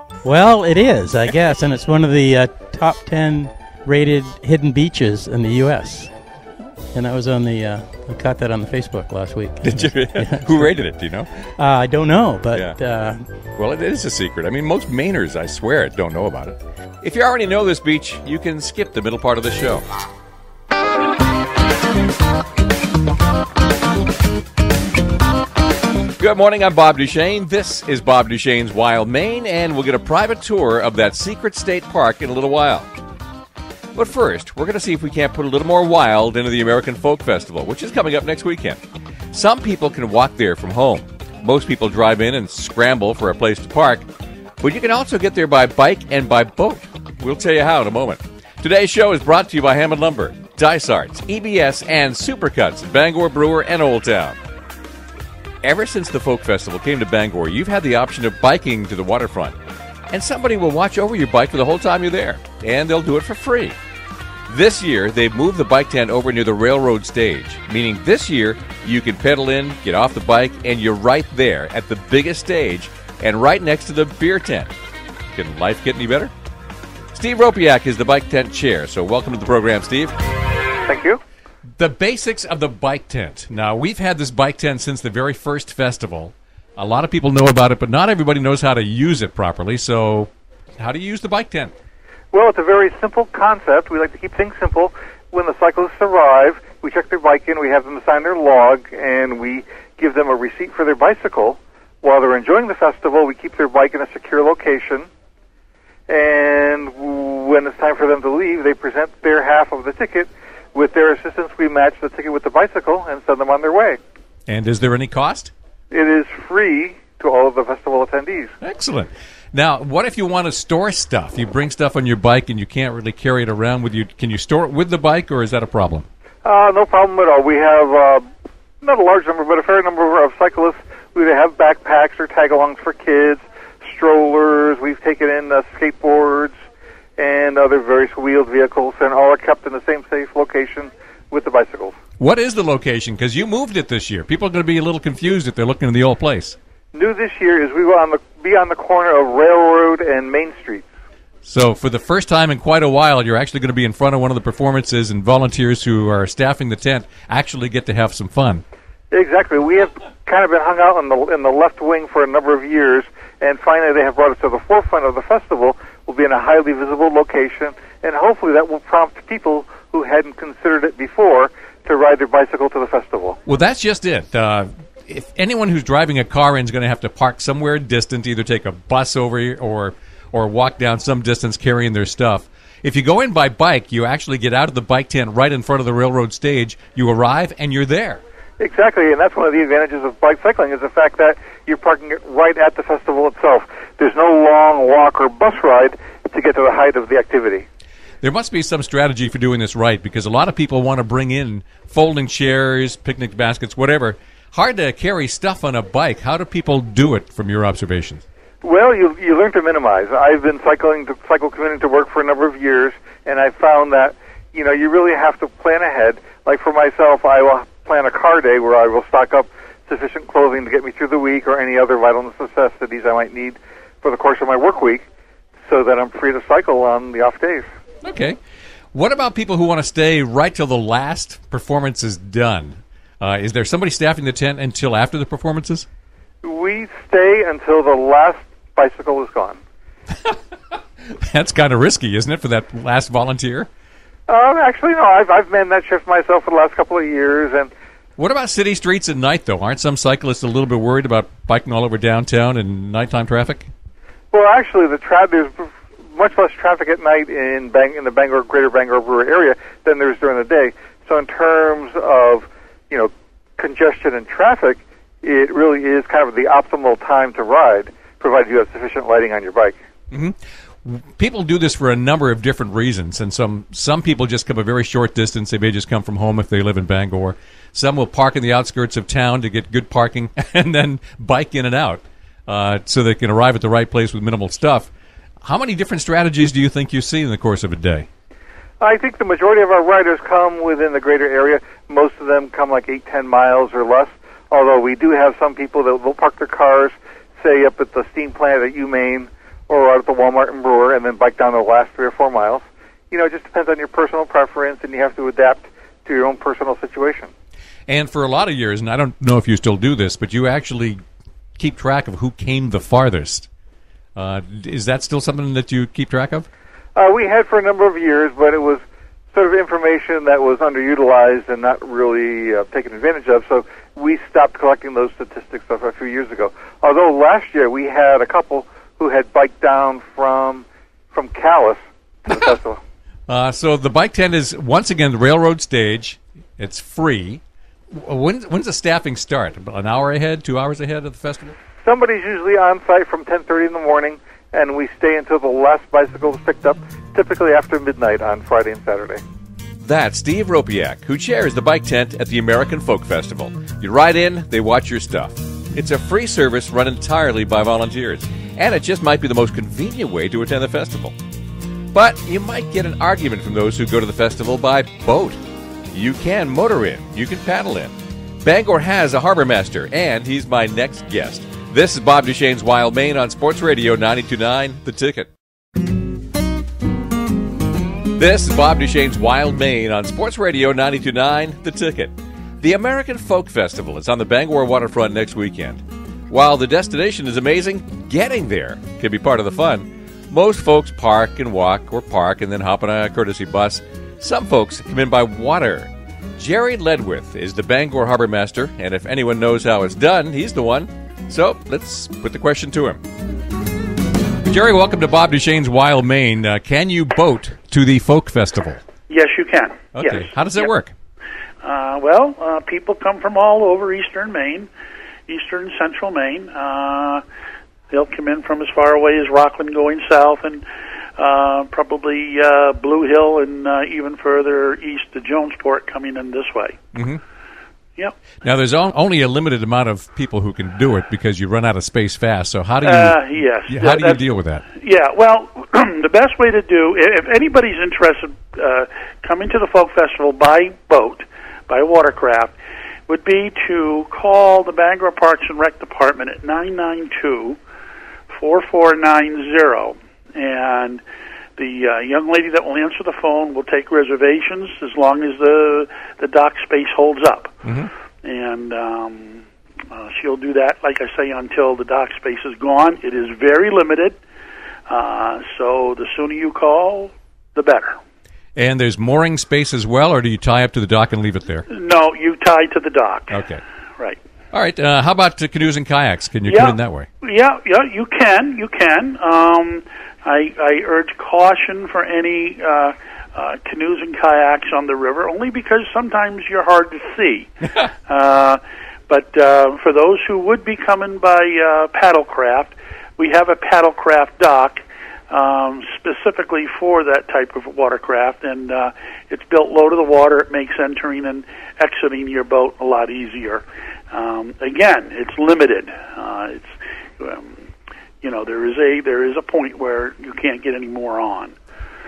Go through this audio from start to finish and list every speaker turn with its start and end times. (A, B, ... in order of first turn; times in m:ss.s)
0:00.2-0:06.1 A
0:06.9-0:10.7 A
0:09.6-0:11.5 B
0:11.6-0:13.2 A
0:13.6-0:19.8 B
0:26.2-0:32.9 B
0:33.9-0:38.8 B
0:39.3-0:44.1 B
0:44.6-0:54.4 B
0:55.6-0:59.6 B
1:00.1-1:03.8 B
1:04.5-1:14.7 B
1:15.3-1:16.3 B
1:17.1-1:20.1 B
1:20.9-1:21.2 C
1:21.8-1:31.7 B
1:32.3-1:45.1 C
1:46.1-1:54.0 C
1:54.5-1:55.5 B
1:55.9-1:58.5 C
1:58.6-2:06.1 B
2:06.4-2:08.2 C
2:08.8-2:16.6 C
2:17.2-2:22.0 C
2:22.2-2:26.6 B
2:26.9-2:30.8 C
2:31.4-2:38.6 B
2:39.1-2:53.4 C
2:53.4-3:08.2 B
3:08.6-3:17.6 C
3:18.2-3:28.2 B
3:28.6-3:45.0 C
3:45.7-3:47.7 C
3:48.0-3:48.4 B
3:48.9-3:55.9 B
3:56.4-3:59.6 C
4:01.1-4:03.7 B
4:04.3-4:07.7 C
4:08.2-4:13.7 B
4:14.3-4:29.8 C
4:30.1-4:44.9 B
4:45.4-4:48.1 B
4:48.8-5:07.3 C
5:07.9-5:11.0 B
5:11.6-5:13.5 B
5:14.2-5:16.5 B
5:17.0-5:32.8 C
5:33.3-5:41.5 B
5:41.8-5:49.2 C
5:49.8-6:01.2 B
6:01.9-6:05.4 B
6:05.9-6:15.3 B
6:18.1-6:43.0 B
6:44.4-6:48.8 B
6:49.1-6:50.3 D
6:49.9-6:50.9 B
6:51.6-6:54.7 D
6:55.3-6:57.2 D
6:57.9-7:00.6 D
7:01.2-7:06.8 D
7:06.9-7:07.2 B
7:08.4-7:14.6 B
7:12.8-7:22.5 D
7:23.1-7:27.6 D
7:28.3-7:31.0 D
7:31.6-7:37.6 D
7:37.6-7:37.9 B
7:38.2-7:44.2 D
7:44.9-7:48.0 D
7:48.6-7:51.6 B
7:51.7-7:53.4 D
7:53.3-7:53.6 B
7:54.5-7:57.1 B
7:56.5-8:27.6 D
8:28.2-8:31.6 D